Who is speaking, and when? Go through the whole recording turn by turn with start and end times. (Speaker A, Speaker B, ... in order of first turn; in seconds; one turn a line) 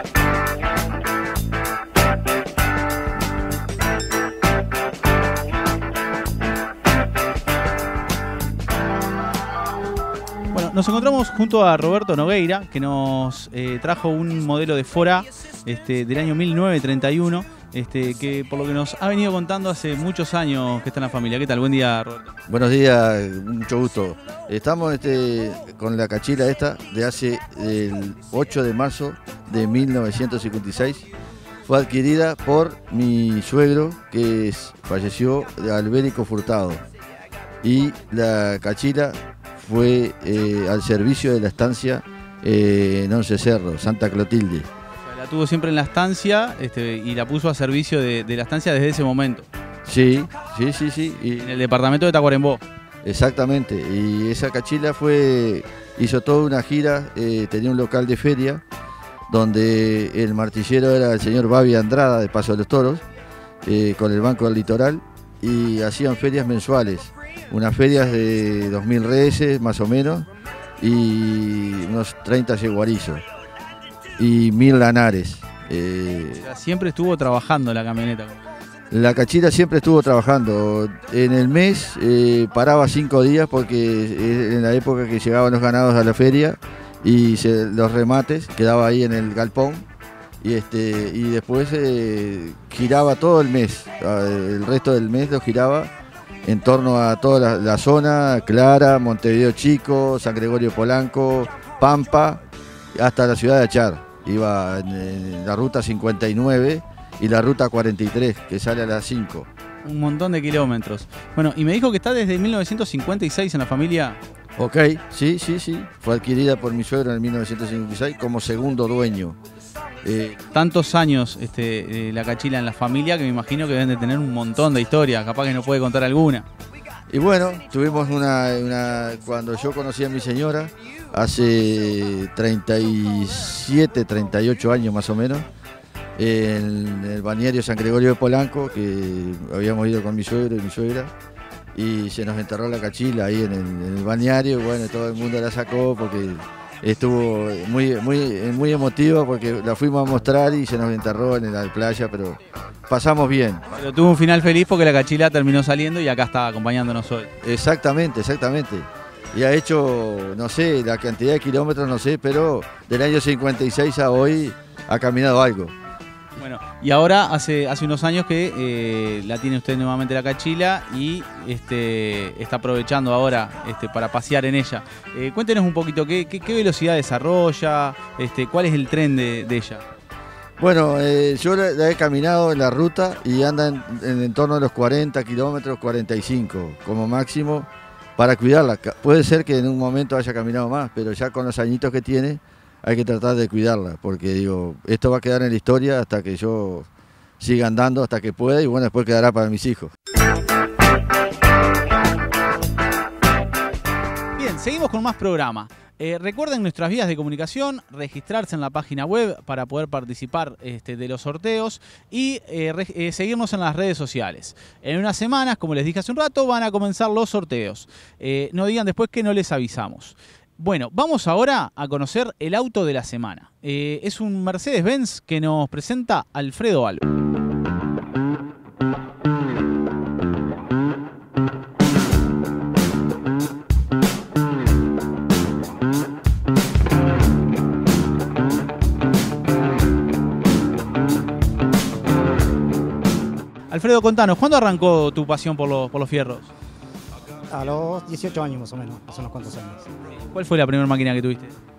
Speaker A: 10.5-22.3
Speaker B: 22.5-31.1
Speaker B: 31.7-36.8
Speaker B: 37.6-44.7
Speaker A: 45.0-49.5
Speaker B: 49.9-51.5
Speaker A: 51.4-52.6
Speaker B: 53.0-58.6
Speaker B: 59.3-63.0
Speaker B: 63.6-70.3
Speaker B: 70.8-73.2
Speaker B: 74.2-76.4
Speaker A: 76.4-78.4
Speaker B: 78.9-89.9
Speaker B: 90.4-95.9
Speaker B: 96.5-102.4
Speaker B: 103.0-109.5
Speaker A: 109.8-114.2
Speaker B: 114.6-119.4
Speaker B: 120.0-120.4
Speaker A: 120.5-126.5
Speaker B: 127.1-135.5
Speaker B: 136.2-141.1
Speaker B: 141.8-153.6
Speaker A: 153.8-157.3
Speaker B: 157.4-165.8
Speaker A: 166.4-179.8
Speaker B: 180.6-196.9
Speaker B: 197.4-199.9
Speaker A: 204.4-227.0
Speaker A: 243.7-246.5
Speaker C: 247.5-249.9
Speaker A: 250.3-251.5